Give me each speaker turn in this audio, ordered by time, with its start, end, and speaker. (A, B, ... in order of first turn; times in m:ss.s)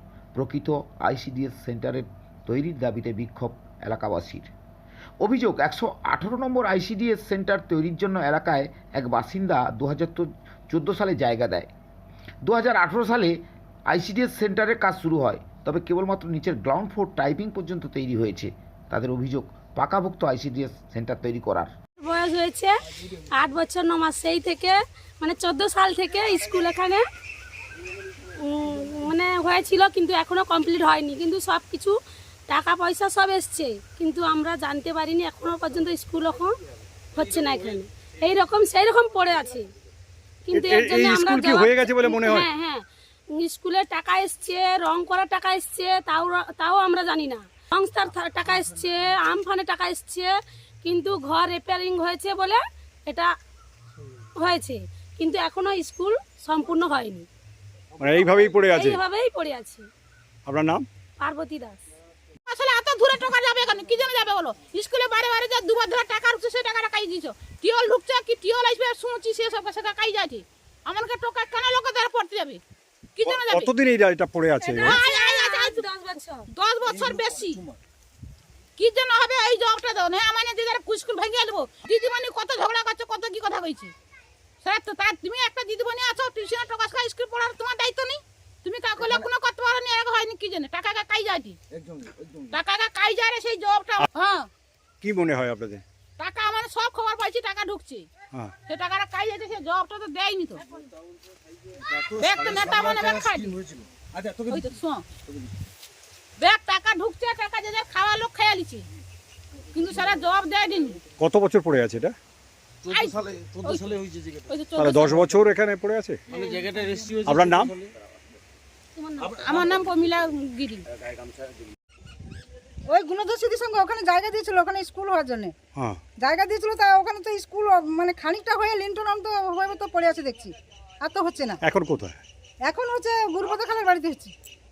0:00.4-0:04.5 A
0:05.2-0:11.7 A
0:12.4-0:13.4 A
0:13.9-0:21.7 A
0:22.0-0:27.0 B
0:28.2-0:32.0 B
0:32.5-0:36.6 B
0:37.1-0:39.7 B
0:40.4-0:42.8 B
0:40.5-0:42.5 C
0:43.4-0:53.3 B
0:54.4-0:57.3 B
0:58.0-0:59.0 C
0:58.7-0:59.9 B
1:00.5-1:00.9 C
1:01.2-1:01.8 B
1:02.5-1:12.6 D
1:13.2-1:13.7 D
1:13.2-1:15.0 C
1:14.6-1:16.5 B
1:14.9-1:15.9 D
1:16.5-1:17.7 D
1:18.8-1:23.9 D
1:24.6-1:31.6 D
1:32.5-1:34.4 D
1:35.0-1:35.8 C
1:36.2-1:38.1 D
1:38.7-1:40.6 D
1:41.9-1:43.6 D
1:44.5-1:45.1 D
1:46.4-1:48.9 D
1:49.7-1:51.0 D
1:51.2-1:52.2 C
1:52.9-1:55.2 D
1:54.8-1:56.2 C
1:56.3-1:56.7 D
1:57.2-1:57.8 C
1:59.0-1:59.6 B
1:59.4-2:00.9 D
2:02.9-2:05.5 E
2:05.8-2:06.0 C
2:06.2-2:11.6 E
2:11.6-2:12.2 C
2:12.7-2:14.3 E